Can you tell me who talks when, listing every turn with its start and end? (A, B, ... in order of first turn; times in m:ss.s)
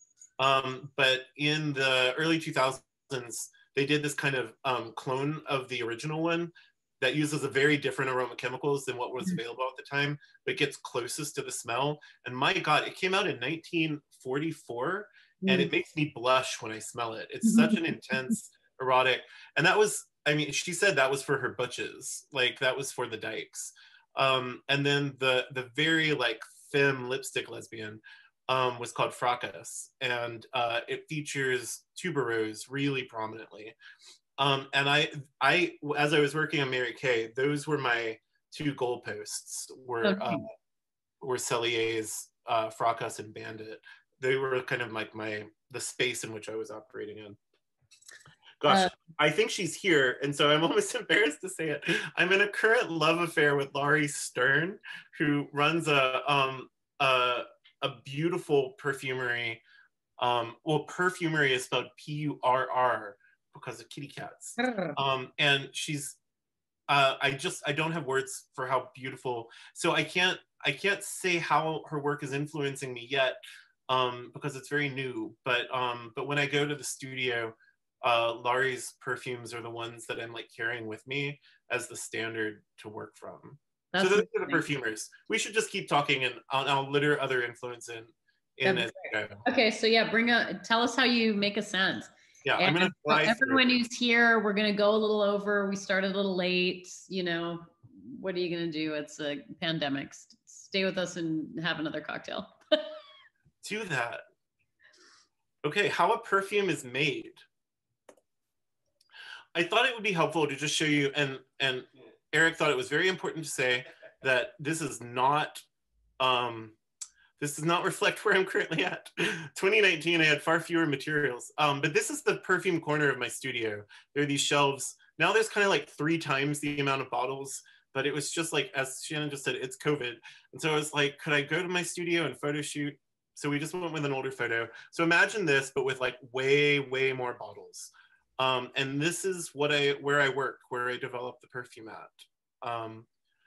0:00.4-0:33.8 A
0:15.4-0:15.7 B
0:17.4-0:17.8 B
0:34.4-0:40.5 A
0:40.0-0:40.4 B
0:41.2-0:47.4 A
0:48.6-0:59.6 A
0:48.7-0:48.9 B
1:00.2-1:06.2 A
1:04.6-1:05.0 B
1:06.9-1:29.4 A
1:23.9-1:24.6 B
1:28.6-1:42.9 B
1:32.4-1:33.6 A
1:43.6-1:44.2 A
1:45.6-1:47.4 A
1:49.6-1:55.6 A
1:56.2-1:56.8 A
1:57.4-2:23.1 A